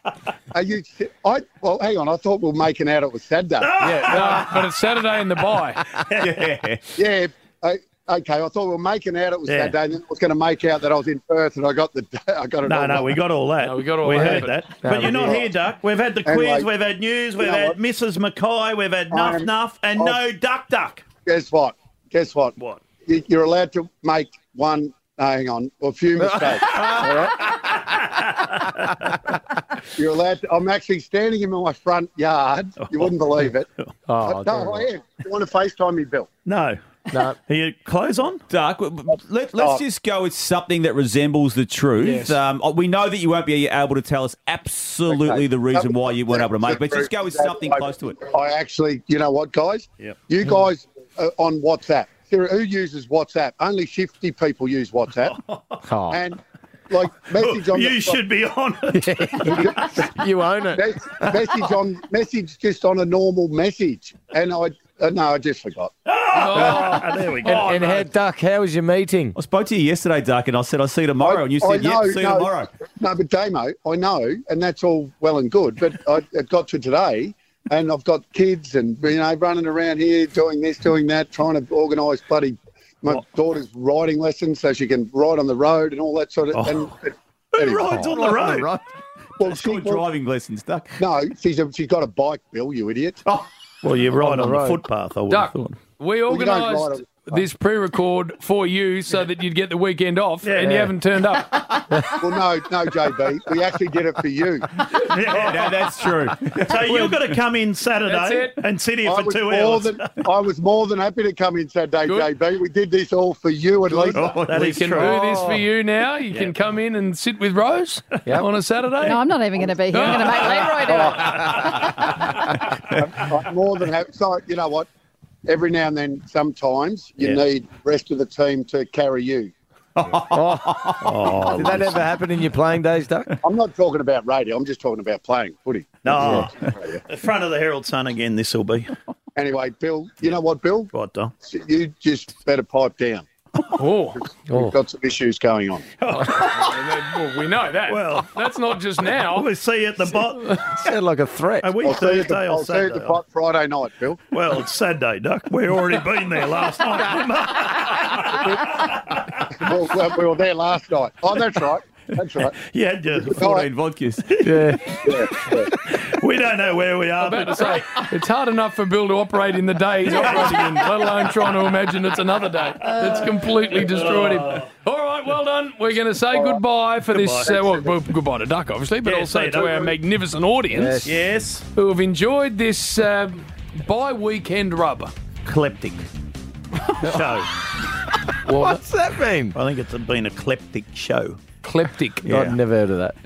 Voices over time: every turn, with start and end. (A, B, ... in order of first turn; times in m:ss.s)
0:00.5-0:03.7 A
0:03.6-0:04.7 B
0:03.8-0:05.8 C
0:06.0-0:06.4 B
0:06.1-0:06.8 D
0:07.0-0:13.2 A
0:09.5-0:09.7 B
0:12.6-0:21.1 B
0:13.6-0:14.8 C
0:14.8-0:15.4 E
0:15.0-0:15.5 A
0:16.2-0:16.7 A
0:17.4-0:17.8 A
0:19.1-0:20.2 A
0:21.2-0:22.5 A
0:22.6-0:22.8 B
0:23.0-0:27.5 A
0:26.8-0:28.9 B
0:30.0-0:33.7 A
0:32.8-0:33.1 B
0:34.1-0:34.9 E
0:34.2-0:36.3 A
0:36.5-0:36.8 B
0:37.1-0:37.4 E
0:37.5-0:38.4 B
0:38.5-0:48.2 D
0:39.6-0:39.8 A
0:42.0-0:42.4 C
0:45.1-0:55.4 A
0:55.2-0:55.8 B
0:55.8-0:56.2 E
0:56.1-0:56.4 A
0:56.9-0:58.2 A
0:57.3-1:00.0 B
0:58.9-1:01.2 E
1:00.7-1:05.9 A
1:06.1-1:08.1 B
1:06.3-1:07.7 C
1:07.4-1:09.4 E
1:09.4-1:12.7 D
1:11.2-1:28.2 A
1:26.5-1:26.9 B
1:27.6-1:28.7 B
1:28.0-1:28.6 E
1:28.1-1:28.7 D
1:29.4-1:30.0 A
1:29.4-1:31.0 D
1:31.0-1:33.2 A
1:33.8-1:35.8 B
1:34.2-1:34.8 E
1:35.3-1:41.7 C
1:36.3-1:37.4 A
1:40.4-1:40.8 B
1:40.6-1:40.9 E
1:42.2-1:44.7 A
1:44.9-1:45.8 B
1:45.2-1:47.4 D
1:46.6-1:50.2 B
1:48.1-1:48.6 C
1:49.0-1:54.4 A
1:52.0-1:52.3 C
1:54.1-1:54.8 D
1:54.1-1:55.1 B
1:54.5-1:59.2 C
1:55.0-1:55.6 E
1:59.0-2:01.6 F
1:59.9-2:01.1 C
2:00.8-2:01.8 A
2:03.0-2:04.9 A
2:05.5-2:09.5 A
2:10.0-2:11.5 D
2:10.3-2:10.7 E
2:11.0-2:12.0 B
2:11.5-2:13.4 E
2:13.4-2:17.0 A
2:16.0-2:18.9 B
2:16.2-2:16.5 E
2:19.4-2:23.2 A
2:20.9-2:21.3 B
2:23.8-2:24.2 C
2:24.5-2:25.8 A
2:24.5-2:24.8 E
2:26.0-2:26.8 B
2:26.4-2:29.5 C
2:27.9-2:28.3 B
2:29.2-2:30.7 B
2:30.7-2:31.7 E
2:31.6-2:33.2 B
2:31.8-2:34.2 A
2:34.3-2:39.4 B
2:39.6-2:42.5 A
2:42.6-2:43.4 B
2:43.1-2:43.7 A
2:43.4-2:44.3 D
2:44.3-2:44.8 B
2:44.4-2:44.8 E
2:45.0-2:45.7 A
2:45.8-2:48.0 B
2:47.2-3:01.1 C
2:50.0-2:50.9 B
2:52.8-2:54.7 B
2:57.1-2:57.7 B
2:59.0-3:00.0 B
3:00.7-3:01.1 E
3:01.0-3:01.6 B
3:01.7-3:05.1 C
3:05.4-3:06.0 B
3:07.0-3:07.5 B
3:08.5-3:08.8 C
3:08.5-3:09.6 E
3:09.5-3:11.4 B
3:11.6-3:12.2 C
3:12.2-3:13.2 E
3:12.2-3:12.6 B